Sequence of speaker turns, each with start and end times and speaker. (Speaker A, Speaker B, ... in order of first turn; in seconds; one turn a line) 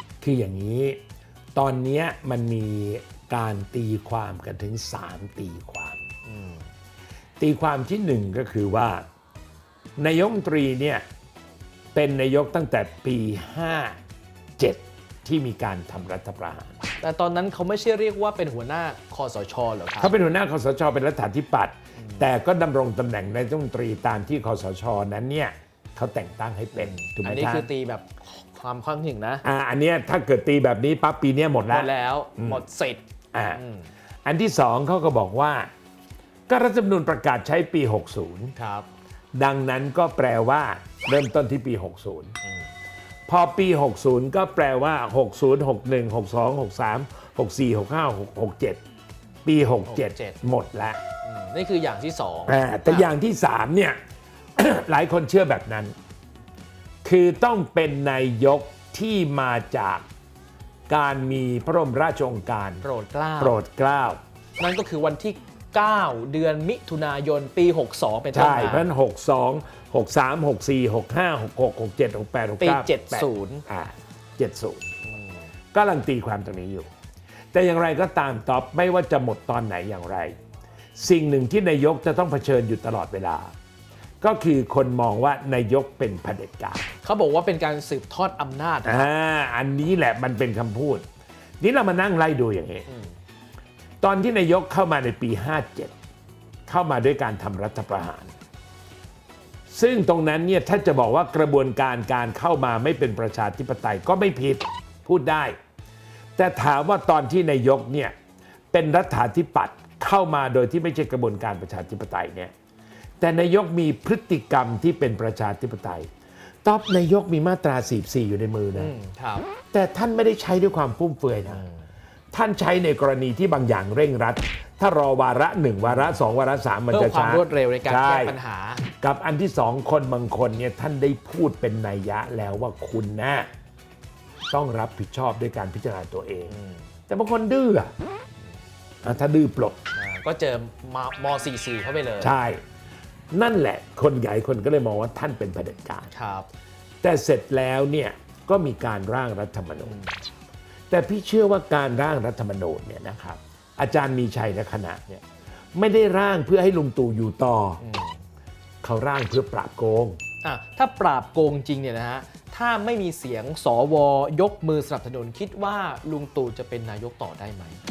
Speaker A: 0.2-1.0
Speaker A: 1.6-6.0
Speaker B: 6.2-6.7
Speaker A: 7.4-9.1
Speaker A: 10.0-11.0
Speaker A: 11.9-14.0
Speaker A: 14.6-16.8
Speaker B: 17.0-20.1
Speaker A: 20.0-27.7
Speaker B: 26.8-29.4
Speaker A: 29.4-32.6
Speaker B: 31.7-33.0
Speaker A: 33.3-33.6
Speaker B: 33.5-33.9
Speaker A: 34.2-35.7
Speaker A: 36.5-38.5
Speaker B: 38.6-38.9
Speaker A: 39.4-42.4
Speaker B: 42.4-42.7
Speaker A: 43.3-48.8
Speaker A: 49.5-51.0
Speaker B: 49.9-50.4
Speaker B: 51.2-53.1
Speaker A: 52.5-54.0
Speaker A: 54.6-56.0
Speaker A: 57.0-60.0
Speaker A: 60.9-62.9
Speaker B: 62.8-63.6
Speaker A: 63.4-64.2
Speaker B: 64.6-68.9
Speaker A: 68.3-74.9
Speaker B: 72.6-73.7
Speaker A: 75.7-76.9
Speaker A: 77.5-80.3
Speaker A: 81.0-83.5
Speaker A: 84.2-86.9
Speaker B: 87.0-89.1
Speaker A: 88.8-91.0
Speaker A: 91.6-92.9
Speaker B: 92.9-93.2
Speaker A: 94.0-95.9
Speaker A: 96.7-98.3
Speaker A: 99.7-105.5
Speaker A: 106.4-108.1
Speaker A: 108.7-112.5
Speaker A: 113.2-116.1
Speaker A: 116.6-118.9
Speaker B: 118.8-119.5
Speaker A: 119.7-121.6
Speaker B: 121.5-121.8
Speaker A: 122.3-128.4
Speaker B: 125.8-126.2
Speaker B: 126.9-128.8
Speaker A: 129.0-133.5
Speaker A: 134.5-136.6
Speaker B: 136.5-136.9
Speaker A: 137.1-137.9
Speaker A: 139.0-139.8
Speaker B: 139.9-142.4
Speaker A: 142.2-142.6
Speaker A: 143.3-146.1
Speaker B: 146.1-146.5
Speaker A: 147.0-150.0
Speaker B: 149.8-150.2
Speaker A: 150.9-155.2
Speaker A: 155.7-157.8
Speaker B: 157.8-158.2
Speaker A: 158.8-160.2
Speaker B: 160.4-167.8